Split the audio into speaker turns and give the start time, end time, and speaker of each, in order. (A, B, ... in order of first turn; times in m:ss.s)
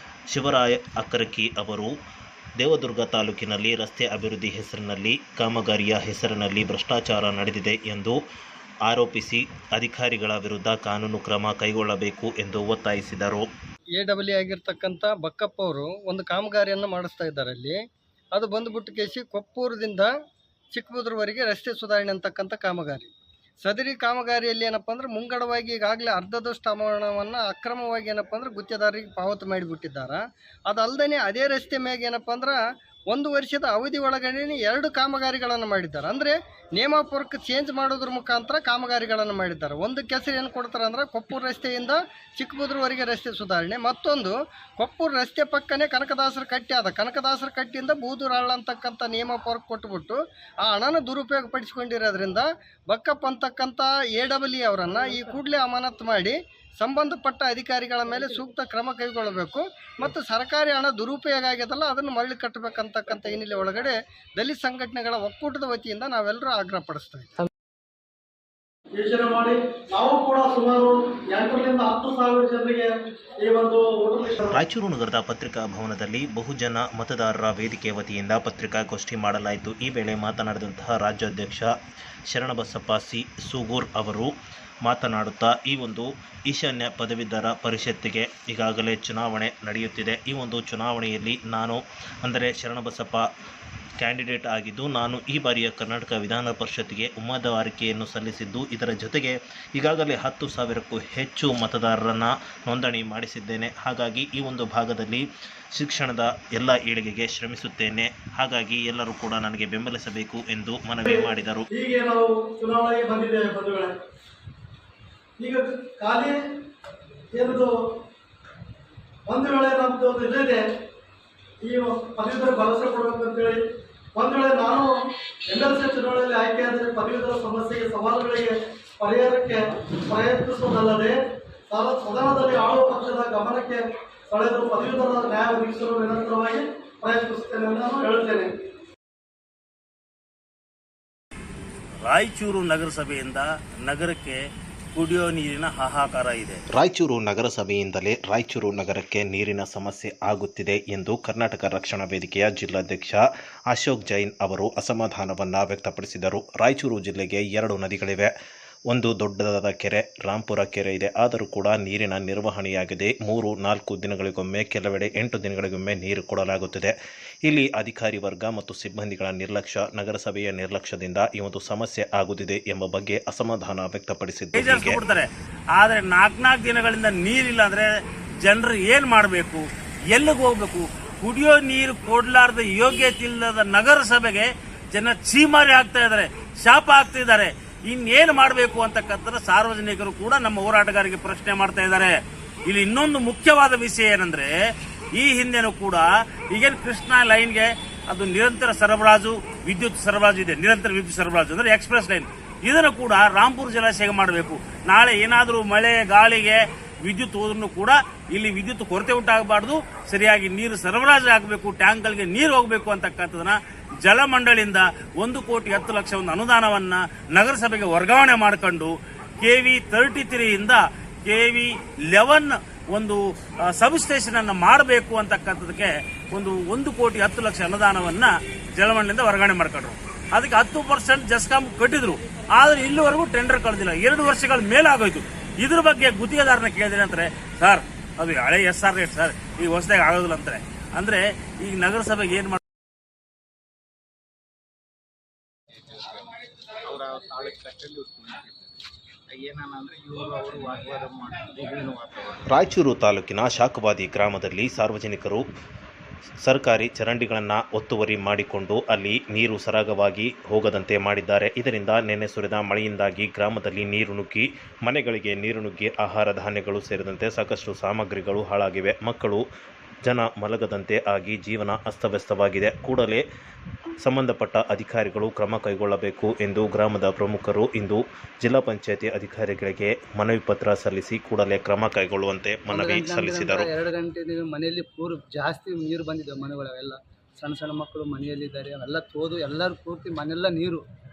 0:00.3-0:01.9 A
0:02.6-0:08.2 A
0:08.8-0:13.5 A
0:14.0-0:17.8 B
0:18.3-0:20.1 B
0:20.7-0:23.1 B
0:23.6-0:32.6 B
0:33.1-1:07.4 B
1:09.0-1:14.6 C
1:14.4-1:21.7 A
1:22.3-1:24.3 A
1:24.8-1:33.2 A
1:34.0-1:51.6 A
1:51.0-1:53.9 C
1:55.4-1:56.4 C
1:57.3-1:57.7 C
1:59.3-2:00.6 C
2:01.6-2:03.6 C
2:04.2-2:05.0 C
2:05.5-2:11.2 C
2:11.7-2:18.5 C
2:22.0-2:24.4 D
2:24.9-2:26.6 D
2:26.7-2:38.3 A
2:38.9-2:46.9 A
2:47.4-2:55.0 A
2:54.5-2:57.9 D
2:58.4-3:14.5 D
3:15.2-3:43.2 D
3:43.7-4:02.6 D
4:05.9-4:12.5 E
4:12.5-4:15.4 A
4:16.4-4:29.4 A
4:30.0-4:33.2 A
4:34.0-4:43.7 A
4:42.7-4:50.8 F